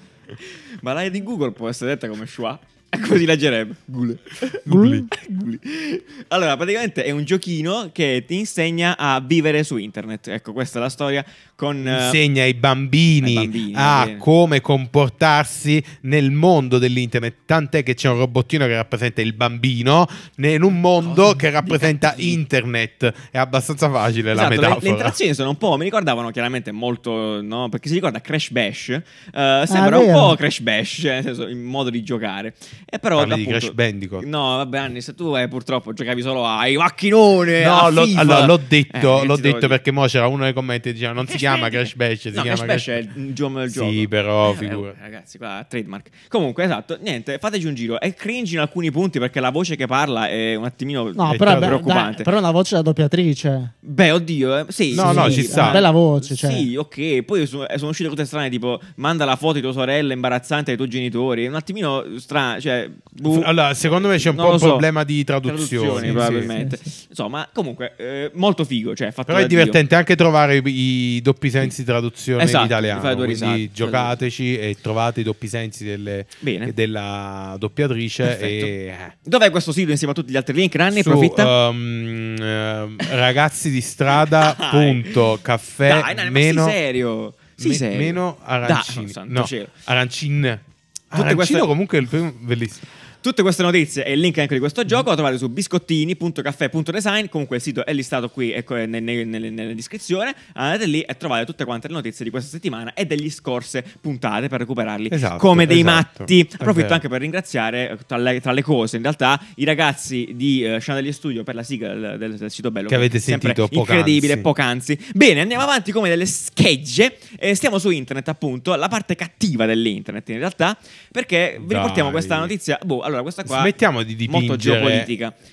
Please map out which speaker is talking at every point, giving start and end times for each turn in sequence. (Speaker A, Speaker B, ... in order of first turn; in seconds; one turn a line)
Speaker A: 0.4-12.2
Speaker B: 4.7-5.1
Speaker C: 4.7-5.1
Speaker B: 11.8-25.2
Speaker A: 13.2-14.2
Speaker A: 21.0-22.4
Speaker A: 24.3-39.8
Speaker C: 29.7-30.4
Speaker B: 33.1-34.2
Speaker B: 37.6-42.9
Speaker A: 41.2-52.3
Speaker B: 43.7-44.9
Speaker C: 51.1-53.7
Speaker B: 51.3-51.8
Speaker A: 53.8-63.5
Speaker B: 54.9-55.8
Speaker C: 55.0-56.7
Speaker B: 63.2-66.5
Speaker A: 64.2-64.8
Speaker A: 65.4-69.8
Speaker C: 66.0-66.8
Speaker B: 69.3-79.1
Speaker A: 72.4-74.1
Speaker A: 76.4-76.7
Speaker A: 78.2-78.7
Speaker A: 79.2-81.5
Speaker B: 80.9-86.8
Speaker A: 84.2-85.3
Speaker A: 85.8-89.7
Speaker B: 87.6-92.8
Speaker A: 91.1-91.7
Speaker A: 93.2-123.7
Speaker B: 105.1-107.0
Speaker B: 112.9-114.5
Speaker B: 121.6-122.5
Speaker B: 123.5-125.1
Speaker A: 124.3-125.3